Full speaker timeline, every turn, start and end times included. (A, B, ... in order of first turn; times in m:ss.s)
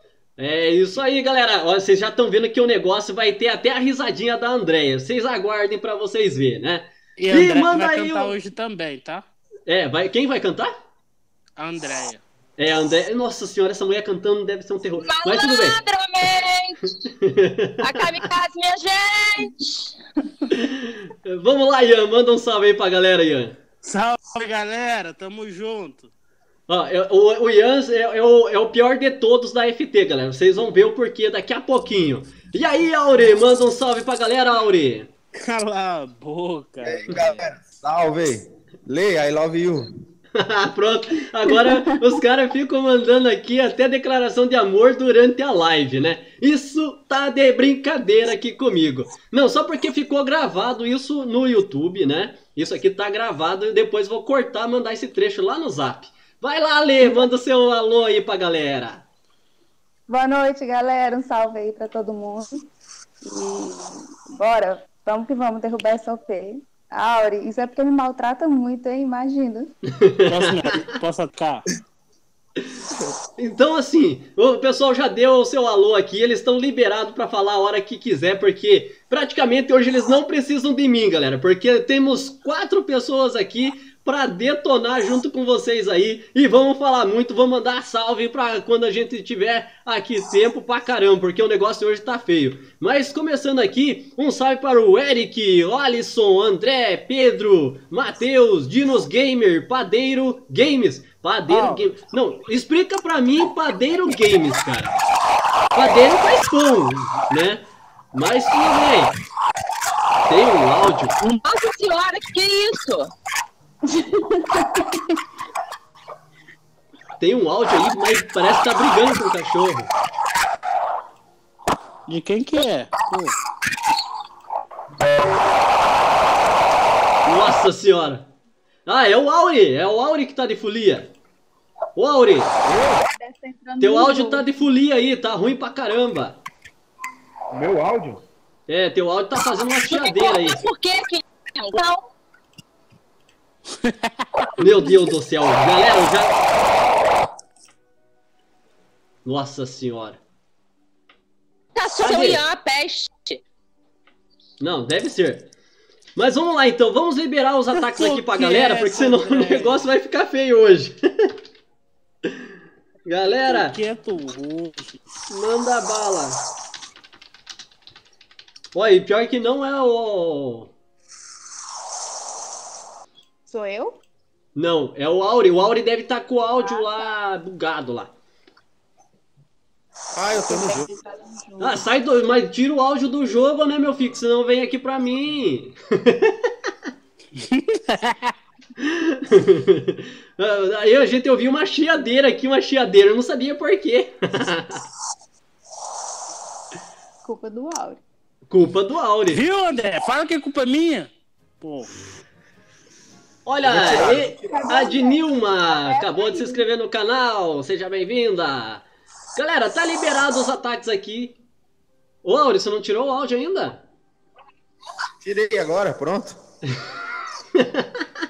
0:00.4-0:08.4 A
0:07.2-0:09.3 B
0:09.7-0:10.8 A
0:11.6-0:12.2 B
0:12.6-0:15.8 A
0:15.0-0:16.8 C
0:17.2-0:18.2 A
0:17.8-0:19.9 C
0:20.5-0:23.6 A
0:23.8-0:26.1 B
0:26.7-0:35.1 A
0:35.4-0:37.6 B
0:36.8-0:39.9 D
0:40.4-0:59.0 A
0:41.5-0:42.0 E
0:57.0-0:57.3 E
1:00.1-1:02.6 E
1:03.2-1:09.7 E
1:10.0-1:10.8 A
1:10.3-1:11.6 B
1:13.4-1:45.0 A
1:41.5-1:41.8 B
1:45.8-1:49.2 A
1:50.3-1:51.2 A
1:51.2-1:53.1 C
1:53.9-1:54.9 E
1:57.2-1:59.9 A
2:02.1-2:03.4 B
2:07.3-2:08.3 A
2:08.9-2:11.1 A
2:12.0-2:12.5 A
2:12.6-2:13.0 D
2:13.2-2:14.5 E
2:13.8-2:16.4 A
2:17.5-2:18.2 D
2:18.7-2:20.6 A
2:19.9-2:22.1 C
2:23.7-2:24.5 B
2:24.6-2:26.3 A
2:29.2-2:30.2 A
2:31.8-2:33.4 C
2:32.0-2:32.4 A
2:34.6-2:35.5 A
2:36.2-2:41.3 A
2:37.8-2:39.9 B
2:43.1-2:43.8 A
2:43.5-2:45.0 B
2:45.3-2:46.4 A
2:48.7-2:50.7 A
2:53.5-2:54.0 E
2:54.6-2:58.1 A
2:56.6-2:57.1 E
3:00.2-3:00.9 D
3:00.3-3:01.8 E
3:01.6-3:06.4 A
3:07.4-3:08.3 B
3:08.8-3:14.8 A
3:17.2-3:18.0 E
3:18.5-3:19.4 A
3:19.3-3:22.2 B
3:23.4-3:28.8 A
3:23.7-3:24.7 D
3:23.7-3:26.6 E
3:29.4-3:31.4 A
3:32.2-3:33.8 A
3:35.2-3:36.4 D
3:37.6-3:38.0 A